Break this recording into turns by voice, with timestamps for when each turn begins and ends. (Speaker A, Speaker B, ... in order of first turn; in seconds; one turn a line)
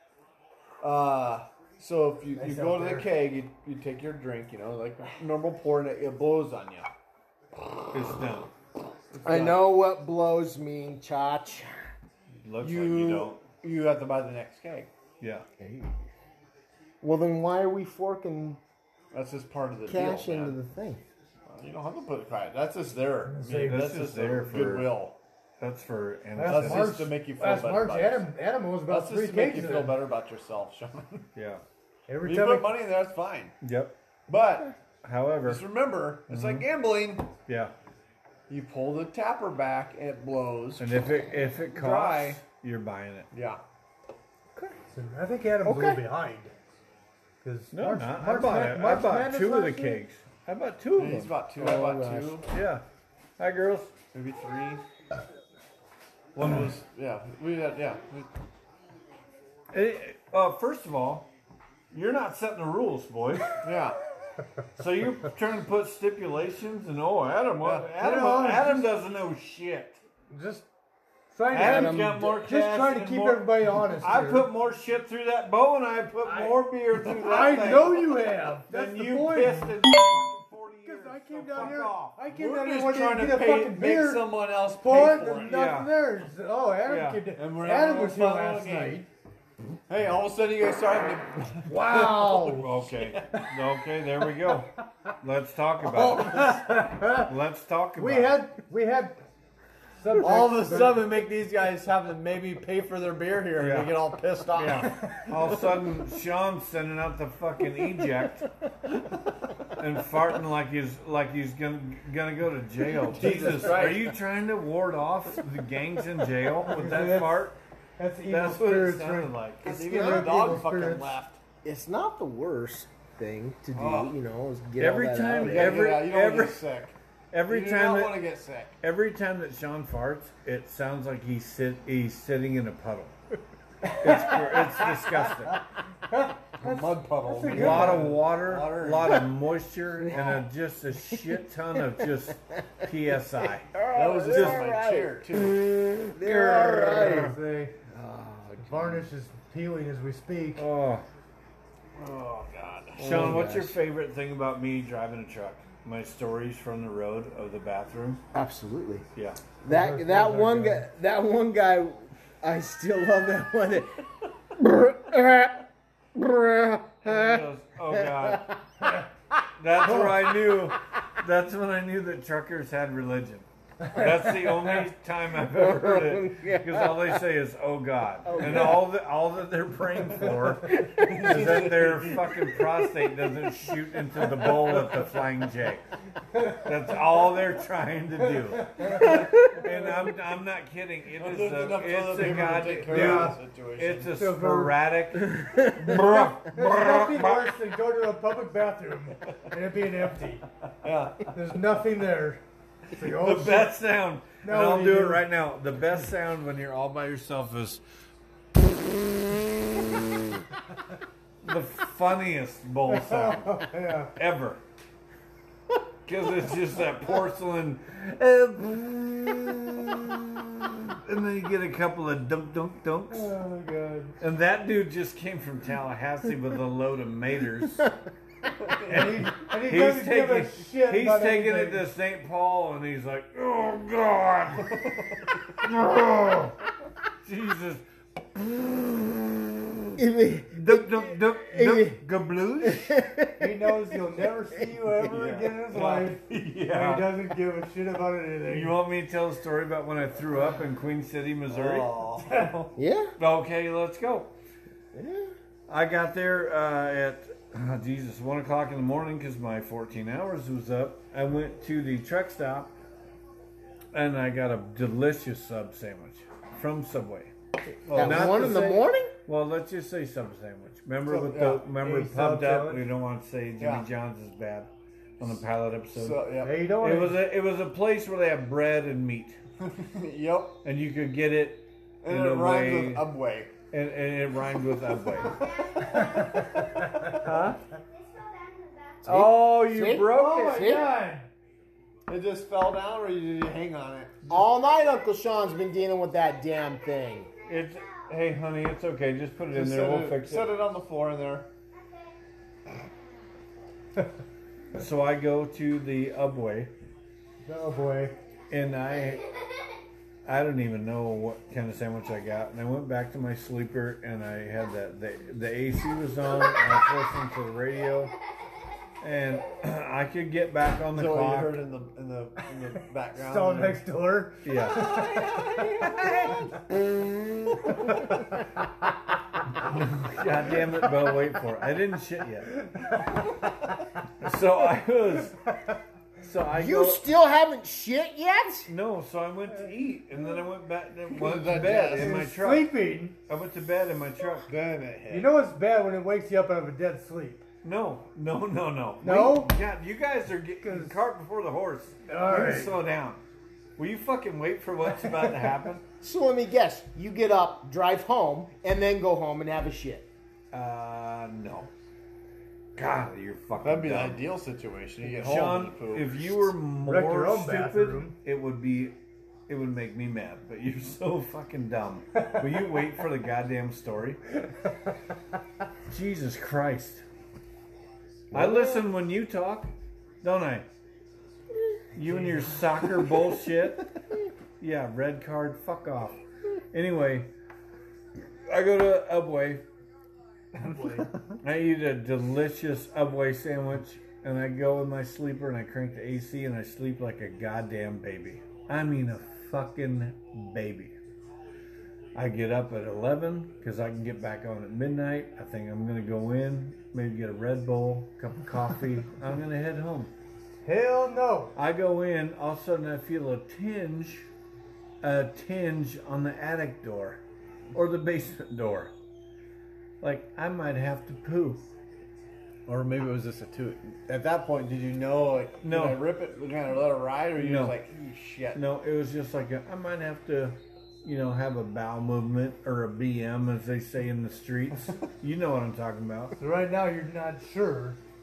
Speaker A: 0.8-6.9
Speaker B: 2.3-3.1
Speaker C: 7.9-8.5
Speaker A: 9.1-9.7
Speaker D: 9.2-11.7
Speaker C: 12.4-13.4
Speaker A: 12.6-14.9
Speaker C: 15.2-15.5
Speaker D: 15.6-16.0
Speaker D: 17.0-18.6
Speaker A: 19.1-20.6
Speaker D: 19.9-21.0
Speaker A: 21.5-25.2
Speaker B: 23.3-24.1
Speaker C: 23.6-24.9
Speaker C: 25.6-27.1
Speaker B: 26.4-30.0
Speaker A: 26.4-28.3
Speaker A: 28.9-31.2
Speaker C: 31.4-31.6
Speaker B: 32.1-32.7
Speaker A: 32.2-33.5
Speaker C: 33.6-34.0
Speaker A: 34.3-34.8
Speaker C: 35.0-35.6
Speaker A: 35.4-37.3
Speaker C: 36.3-36.7
Speaker C: 37.5-37.7
Speaker A: 38.5-40.9
Speaker C: 40.8-43.3
Speaker A: 41.7-42.4
Speaker A: 43.3-43.6
Speaker B: 44.9-46.5
Speaker D: 45.6-46.0
Speaker B: 47.4-50.0
Speaker C: 47.7-51.4
Speaker A: 51.0-52.5
Speaker D: 51.6-52.4
Speaker C: 52.5-52.8
Speaker C: 53.4-53.9
Speaker A: 54.1-54.8
Speaker C: 56.3-56.8
Speaker A: 56.4-58.3
Speaker C: 59.7-61.3
Speaker C: 61.9-63.7
Speaker A: 63.6-64.0
Speaker C: 64.8-70.0
Speaker A: 67.6-67.9
Speaker B: 68.0-68.9
Speaker B: 70.3-70.7
Speaker B: 71.3-74.5
Speaker C: 71.5-82.2
Speaker D: 71.5-72.2
Speaker B: 76.2-79.8
Speaker A: 77.0-77.9
Speaker B: 80.8-89.1
Speaker A: 82.3-85.7
Speaker C: 85.4-85.9
Speaker C: 86.8-87.3
Speaker A: 87.3-89.1
Speaker A: 89.9-93.4
Speaker B: 91.7-92.8
Speaker C: 91.8-98.4
Speaker A: 95.8-96.6
Speaker B: 96.2-97.3
Speaker B: 98.0-99.2
Speaker B: 100.0-101.1
Speaker A: 100.2-105.7
Speaker C: 103.5-108.5
Speaker B: 104.7-105.2
Speaker C: 109.8-117.6
Speaker A: 113.0-114.2
Speaker B: 116.7-117.4
Speaker B: 118.0-121.2
Speaker C: 118.3-120.2
Speaker A: 119.6-121.4
Speaker D: 121.6-125.8
Speaker A: 123.8-124.1
Speaker C: 124.8-126.6
Speaker A: 125.3-127.0
Speaker C: 127.3-128.2
Speaker A: 127.5-128.8
Speaker C: 128.8-133.2
Speaker C: 134.0-135.6
Speaker B: 136.1-138.2
Speaker A: 136.6-139.3
Speaker C: 137.5-143.7
Speaker D: 143.6-147.4
Speaker A: 143.9-145.6
Speaker C: 144.3-144.7
Speaker C: 146.2-147.3
Speaker B: 146.6-147.8
Speaker D: 147.9-149.0
Speaker B: 148.6-150.7
Speaker C: 150.6-151.1
Speaker A: 151.9-153.6
Speaker C: 153.0-158.2
Speaker D: 153.0-153.8
Speaker D: 158.3-159.1
Speaker C: 159.2-159.4
Speaker D: 159.6-165.6
Speaker B: 159.7-160.9
Speaker D: 166.2-168.6
Speaker C: 167.0-168.5
Speaker B: 168.8-169.1
Speaker C: 169.6-185.8
Speaker B: 169.8-170.1
Speaker D: 169.9-170.6
Speaker D: 175.4-177.2
Speaker D: 178.2-178.9
Speaker D: 180.7-181.7
Speaker A: 180.9-182.3
Speaker C: 186.5-197.5
Speaker B: 188.4-189.1
Speaker D: 189.0-189.6
Speaker A: 191.2-194.1
Speaker B: 192.2-193.4
Speaker B: 194.2-194.8
Speaker D: 195.3-196.2
Speaker B: 196.2-200.5
Speaker A: 200.8-201.3
Speaker B: 201.3-203.8
Speaker C: 203.0-207.8
Speaker B: 204.4-205.2
Speaker C: 211.4-214.6
Speaker B: 212.9-214.1
Speaker C: 216.1-223.3
Speaker B: 223.1-224.2
Speaker C: 224.2-227.9
Speaker A: 228.6-229.4
Speaker C: 228.9-235.0
Speaker B: 228.9-231.8
Speaker A: 234.7-235.4
Speaker C: 235.5-236.6
Speaker C: 237.2-240.0
Speaker D: 240.0-242.0
Speaker C: 240.5-242.9
Speaker D: 242.6-243.7
Speaker B: 243.4-248.8
Speaker A: 245.1-245.5
Speaker C: 245.1-247.2
Speaker C: 248.5-251.9
Speaker A: 251.5-252.8
Speaker B: 252.2-252.6
Speaker D: 252.8-253.2
Speaker C: 253.2-254.3
Speaker D: 254.9-255.3
Speaker C: 255.7-262.8
Speaker C: 263.9-267.3
Speaker A: 267.9-268.6
Speaker C: 267.9-279.4
Speaker D: 267.9-269.1
Speaker A: 271.1-271.7
Speaker B: 271.7-272.9
Speaker A: 273.6-273.9
Speaker A: 275.9-276.7
Speaker B: 276.4-277.2
Speaker A: 279.6-280.6
Speaker C: 280.6-283.1
Speaker A: 282.0-283.5
Speaker C: 283.7-285.4
Speaker E: 285.4-286.8
Speaker A: 285.8-287.1
Speaker C: 287.2-287.6
Speaker E: 287.4-289.3
Speaker C: 289.1-290.7
Speaker D: 289.1-290.9
Speaker B: 290.1-291.3
Speaker A: 292.1-294.3
Speaker D: 294.3-297.3
Speaker E: 297.5-298.1
Speaker C: 297.5-300.5
Speaker A: 299.5-301.5
Speaker E: 301.7-302.2
Speaker C: 304.7-306.7
Speaker B: 307.4-308.1
Speaker C: 308.5-309.2
Speaker E: 308.7-309.2
Speaker C: 310.2-318.1
Speaker C: 319.0-321.6
Speaker A: 320.9-323.9
Speaker B: 323.1-326.4
Speaker C: 324.4-325.1
Speaker A: 324.6-326.4
Speaker C: 326.0-326.3
Speaker D: 327.8-328.1
Speaker C: 329.6-332.5
Speaker B: 332.7-333.5
Speaker C: 334.2-335.4
Speaker C: 336.2-337.0
Speaker D: 336.6-338.7
Speaker C: 338.7-344.5
Speaker A: 341.1-342.3
Speaker B: 341.8-343.2
Speaker A: 344.5-345.3
Speaker B: 345.1-347.4
Speaker C: 347.6-353.2
Speaker B: 349.0-349.5
Speaker B: 350.6-350.9
Speaker B: 352.1-352.8
Speaker C: 353.8-355.8
Speaker D: 356.0-360.1
Speaker C: 360.5-361.7
Speaker C: 362.8-364.2
Speaker A: 363.6-366.5
Speaker C: 365.1-369.0
Speaker B: 366.8-368.2
Speaker C: 369.5-374.2
Speaker C: 375.9-377.1
Speaker D: 378.3-378.8
Speaker C: 378.3-380.7
Speaker C: 381.9-383.9
Speaker B: 382.1-382.5
Speaker C: 384.6-386.2
Speaker C: 386.7-387.3
Speaker C: 388.5-389.6
Speaker B: 390.6-391.1
Speaker C: 391.4-401.0
Speaker C: 402.1-410.1
Speaker B: 410.6-411.6
Speaker C: 411.6-414.3
Speaker C: 415.0-417.2
Speaker C: 417.7-418.9
Speaker C: 420.0-421.7
Speaker A: 422.7-428.6
Speaker C: 425.6-426.0
Speaker C: 427.4-427.8
Speaker C: 428.5-436.4
Speaker B: 436.4-438.0